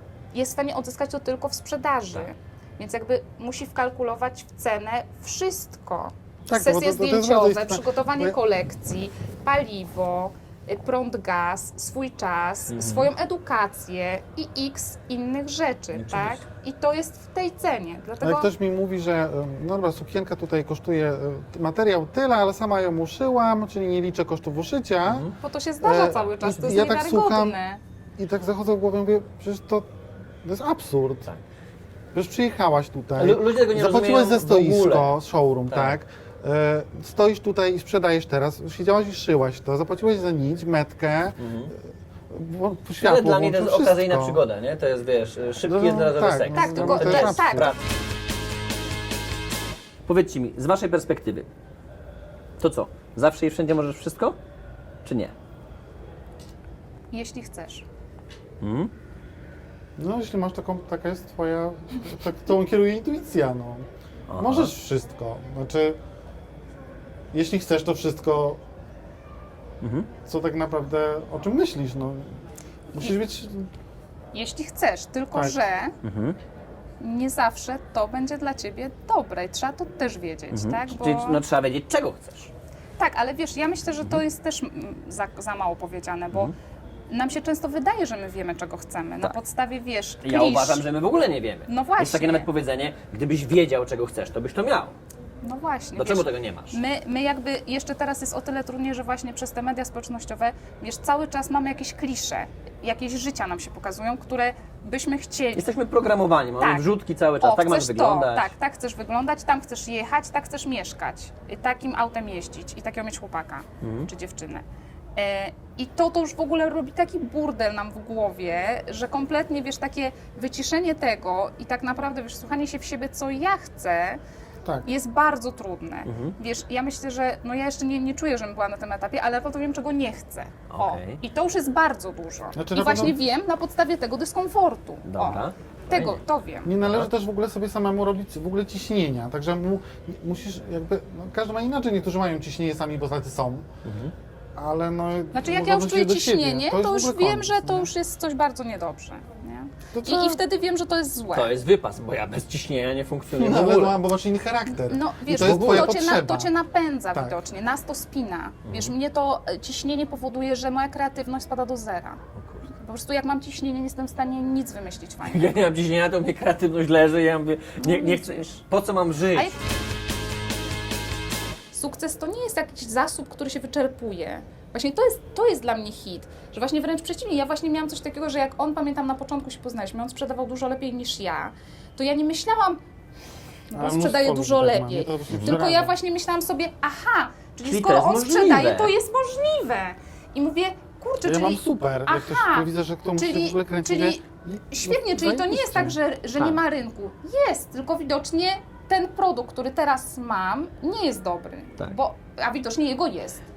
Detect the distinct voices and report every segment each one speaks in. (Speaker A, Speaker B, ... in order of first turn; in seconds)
Speaker A: 0.3-18.5, 25.4-27.8, 46.5-47.7, 57.1-57.9, 74.3-75.9, 77.0-81.4, 83.0-86.5, 87.1-90.8, 91.7-92.5, 95.4-105.7, 106.6-106.9, 107.4-114.6, 115.2-124.2, 124.8-136.7, 145.3-151.5, 154.8-162.2, 162.8-165.6, 167.8-168.4, 169.3-169.6, 171.7-182.8, 183.7-203.4
Speaker B: 6.5-8.4, 18.2-25.3, 25.8-27.6, 28.2-29.9, 30.4-31.3, 32.1-41.4, 42.3-44.4, 45.6-47.7, 60.0-66.0, 67.3-68.6, 70.2-72.3, 72.9-73.7, 75.3-75.6, 132.5-133.2, 136.6-143.7, 144.6-147.9, 149.9-150.4, 153.3-156.5, 183.7-185.9, 191.2-196.0
Speaker C: 12.7-13.1, 15.9-16.4, 25.1-25.3, 26.4-26.8, 33.1-35.1, 35.7-36.0, 41.4-41.7, 43.0-47.8, 50.0-51.5, 52.6-54.4, 55.0-55.3, 58.6-58.9, 64.3-64.7, 69.8-70.1, 76.0-76.4, 80.5-82.5, 90.2-95.0, 96.0-96.8, 105.5-108.5, 113.8-114.1, 126.0-126.3, 130.7-131.2, 132.8-133.1, 135.1-136.2, 136.8-137.1, 143.8-144.1, 151.3-154.0, 155.3-156.0, 158.6-158.9, 162.3-162.7, 165.2-169.5, 185.3-185.6, 187.6-188.9